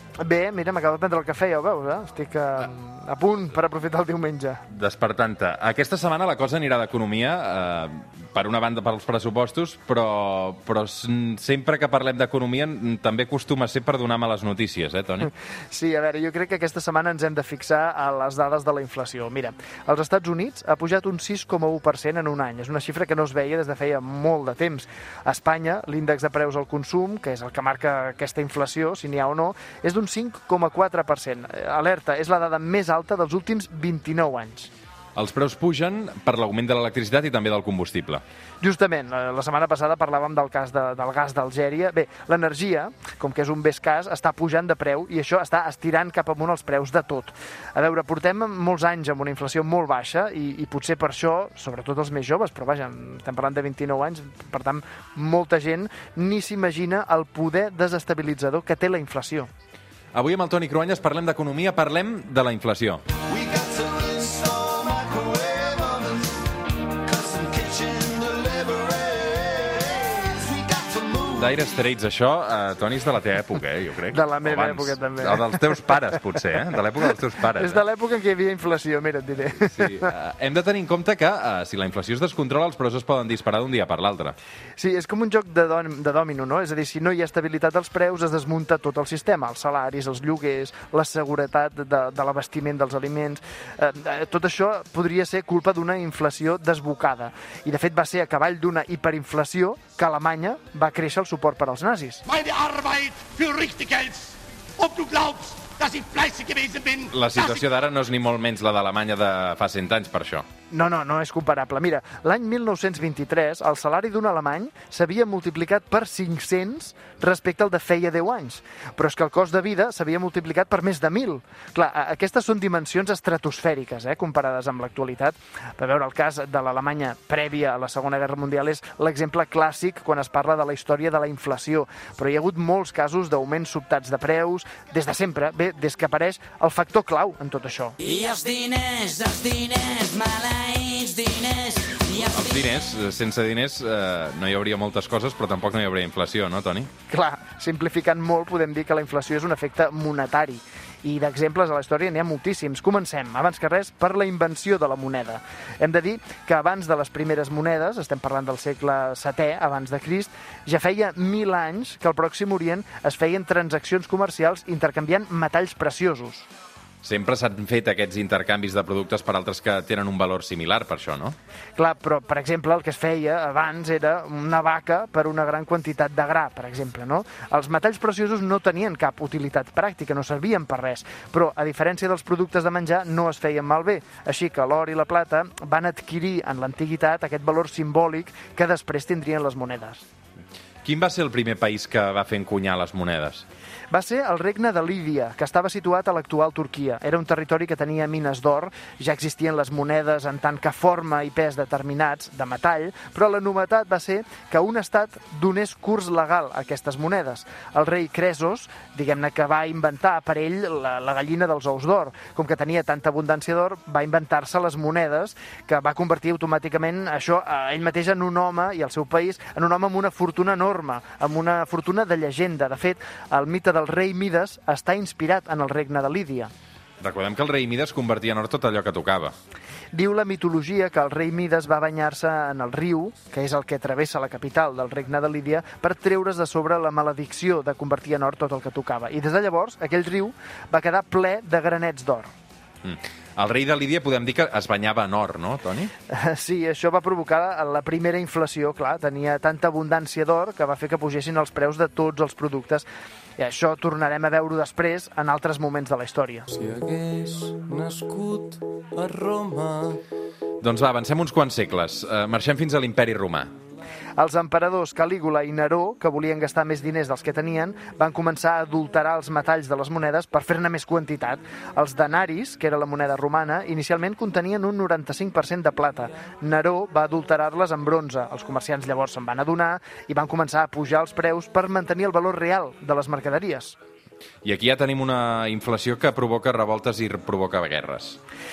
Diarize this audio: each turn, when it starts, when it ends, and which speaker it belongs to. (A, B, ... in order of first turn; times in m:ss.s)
0:00.2-0:04.6 A
0:04.7-0:15.3 B
0:15.7-0:34.7 A
0:35.2-0:38.2 B
0:38.6-0:59.5 A
1:00.1-1:03.0 B
1:03.3-1:06.4 C
1:06.9-1:11.4 C
1:11.3-1:17.8 B
1:14.1-1:15.7 A
1:17.5-1:20.1 A
1:19.6-1:24.3 B
1:24.8-1:42.2 A
1:42.2-1:47.1 D
1:47.1-1:50.4 B
1:50.7-2:18.0 A
2:18.0-2:22.2 E
2:22.1-2:26.9 B
2:27.1-2:46.5 A
2:47.0-2:51.4 B
2:51.8-3:10.0 A
3:10.8-3:13.4 B
3:13.9-3:46.5 A
3:47.0-3:49.3 B
3:49.9-4:02.3 A
4:02.8-4:05.9 B
4:06.1-4:12.8 A
4:13.4-4:16.5 A
4:16.5-4:20.0 C
4:20.6-4:23.5 B
4:24.2-4:43.8 A
4:44.4-4:48.2 B